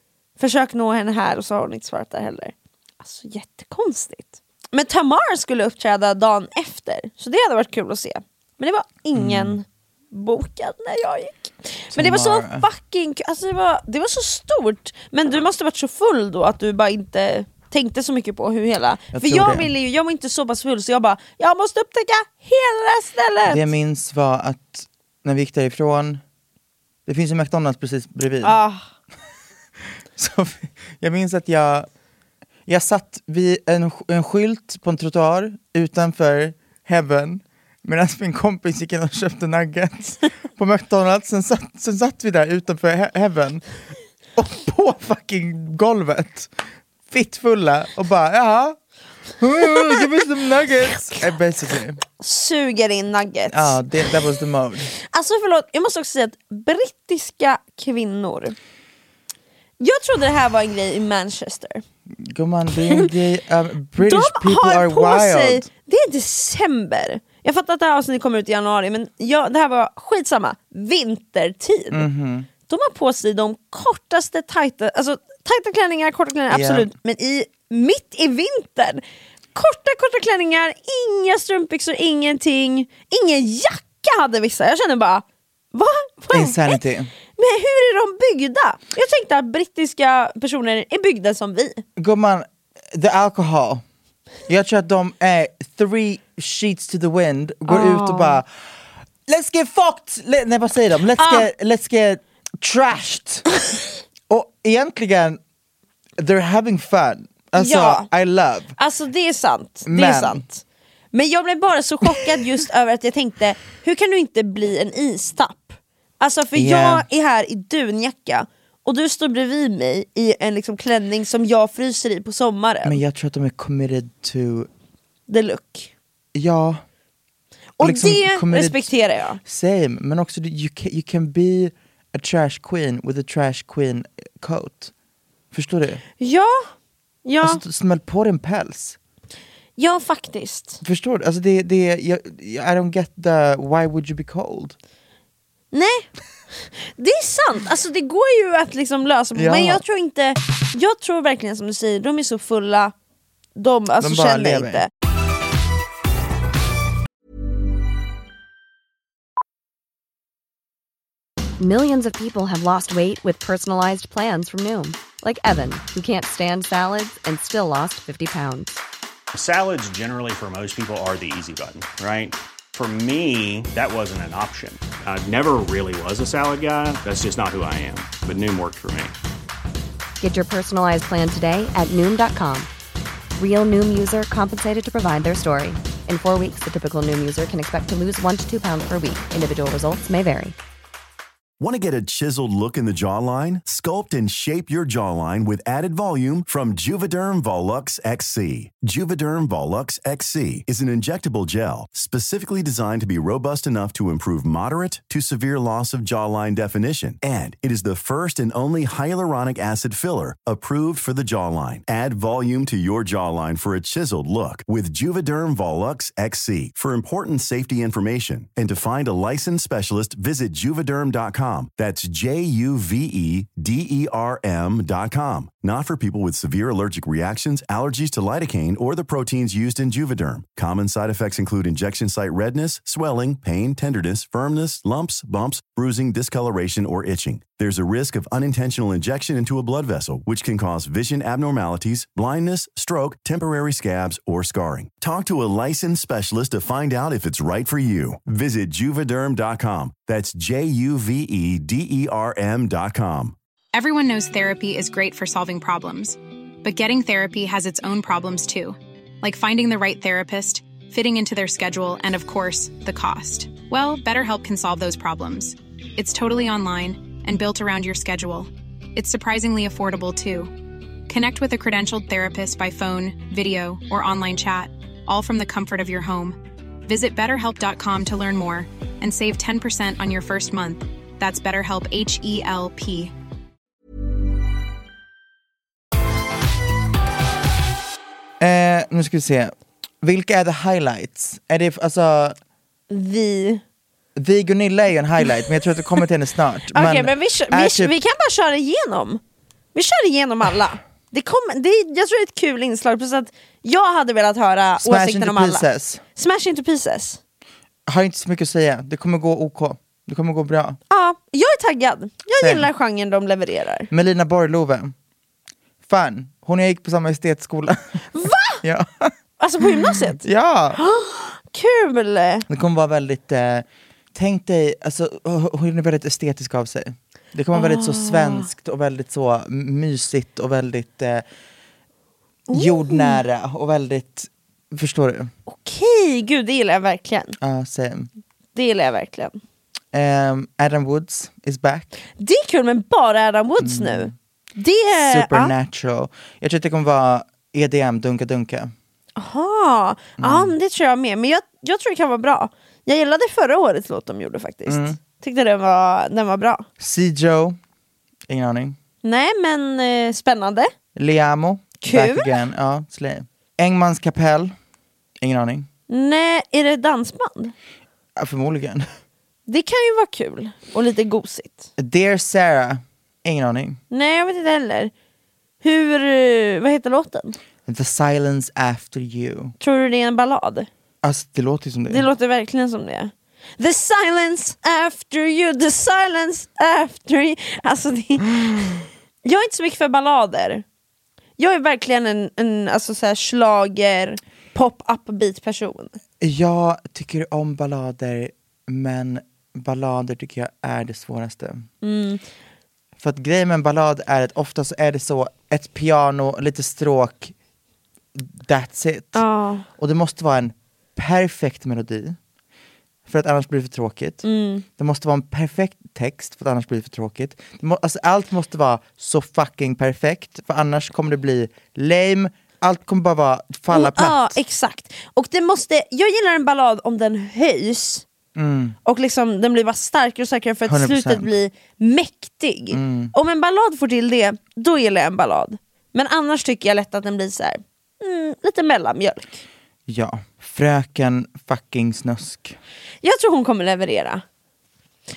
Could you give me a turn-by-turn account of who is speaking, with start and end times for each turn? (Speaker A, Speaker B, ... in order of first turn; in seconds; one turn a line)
Speaker A: 0.4-23.7
Speaker B: 9.2-9.6
Speaker B: 11.9-12.7
Speaker B: 19.1-19.7
Speaker B: 23.5-26.2
Speaker B: 27.1-28.6
Speaker A: 28.4-28.9
Speaker B: 30.2-31.9
Speaker B: 32.7-43.6
Speaker B: 44.4-46.5
Speaker B: 47.1-48.8
Speaker B: 49.4-52.0
Speaker A: 52.2-53.8
Speaker B: 53.5-54.9
Speaker A: 55.1-58.6
Speaker A: 59.8-61.8
Speaker B: 62.2-65.7
Speaker A: 64.0-72.1
Speaker B: 71.9-72.5
Speaker A: 72.7-79.0
Speaker B: 76.5-76.9
Speaker A: 79.5-86.8
Speaker B: 86.3-87.1
Speaker A: 87.4-91.8
Speaker B: 92.0-93.8
Speaker B: 94.5-98.5
Speaker A: 97.7-98.4
Speaker B: 99.3-103.5
Speaker A: 101.2-101.5
Speaker B: 104.3-105.4
Speaker B: 106.2-108.7
Speaker A: 107.6-108.1
Speaker A: 108.8-110.6
Speaker B: 109.9-110.4
Speaker A: 111.1-123.0
Speaker B: 116.5-117.0
Speaker B: 122.8-124.7
Speaker A: 125.3-125.9
Speaker B: 126.3-126.8
Speaker A: 127.8-129.4
Speaker B: 127.8-128.9
Speaker B: 129.4-134.9
Speaker B: 135.5-136.0
Speaker A: 136.2-136.7
Speaker A: 137.2-137.6
Speaker B: 137.4-139.0
Speaker A: 139.8-140.8
Speaker B: 140.8-144.8
Speaker A: 145.7-146.1
Speaker A: 146.7-152.9
Speaker B: 149.3-149.8
Speaker A: 153.6-154.9
Speaker B: 154.0-154.8
Speaker C: 161.6-168.8
Speaker D: 169.3-179.1
Speaker C: 180.2-182.7
Speaker C: 183.4-190.6
Speaker E: 191.6-253.4
Speaker F: 253.7-270.5
Speaker F: 271.1-283.1
Speaker B: 288.4-292.4
Speaker A: 292.9-293.6
Speaker B: 294.2-297.9
Speaker A: 296.7-299.2
Speaker A: 299.8-305.6
Speaker B: 304.8-306.0
Speaker A: 306.2-307.2
Speaker B: 307.9-310.8
Speaker A: 310.9-313.9
Speaker B: 312.4-312.7
Speaker B: 313.9-314.9
Speaker B: 315.9-318.0
Speaker A: 318.1-318.6
Speaker B: 318.6-319.1
Speaker A: 319.4-322.5
Speaker B: 319.9-320.8
Speaker B: 322.5-331.2
Speaker A: 327.5-328.5
Speaker A: 332.5-333.2
Speaker B: 332.5-335.3
Speaker A: 335.5-337.4
Speaker B: 337.4-338.1
Speaker A: 338.6-339.4
Speaker B: 339.9-341.9
Speaker A: 342.2-345.5
Speaker B: 343.6-344.1
Speaker B: 345.0-348.7
Speaker A: 349.2-356.7
Speaker B: 350.2-350.6
Speaker B: 354.7-355.0
Speaker B: 356.8-357.6
Speaker B: 358.3-358.8
Speaker A: 359.0-360.7
Speaker B: 361.0-364.6
Speaker A: 361.8-362.3
Speaker B: 365.2-365.7
Speaker A: 365.9-367.5
Speaker B: 368.2-368.9
Speaker A: 369.5-371.7
Speaker B: 371.8-373.8
Speaker A: 373.9-374.9
Speaker A: 375.6-377.4
Speaker B: 377.7-379.5
Speaker A: 379.6-380.7
Speaker B: 381.0-382.1
Speaker A: 381.9-390.6
Speaker A: 391.4-396.0
Speaker B: 396.2-401.6
Speaker A: 401.8-402.2
Speaker B: 403.0-407.3
Speaker B: 408.2-409.2
Speaker A: 409.1-409.7
Speaker B: 409.8-412.2
Speaker B: 413.1-414.2
Speaker A: 414.2-414.6
Speaker B: 414.8-424.4
Speaker A: 423.7-428.1
Speaker B: 428.4-428.8
Speaker A: 428.9-439.4
Speaker B: 430.7-431.3
Speaker B: 432.7-433.1
Speaker B: 439.9-442.6
Speaker A: 443.0-444.2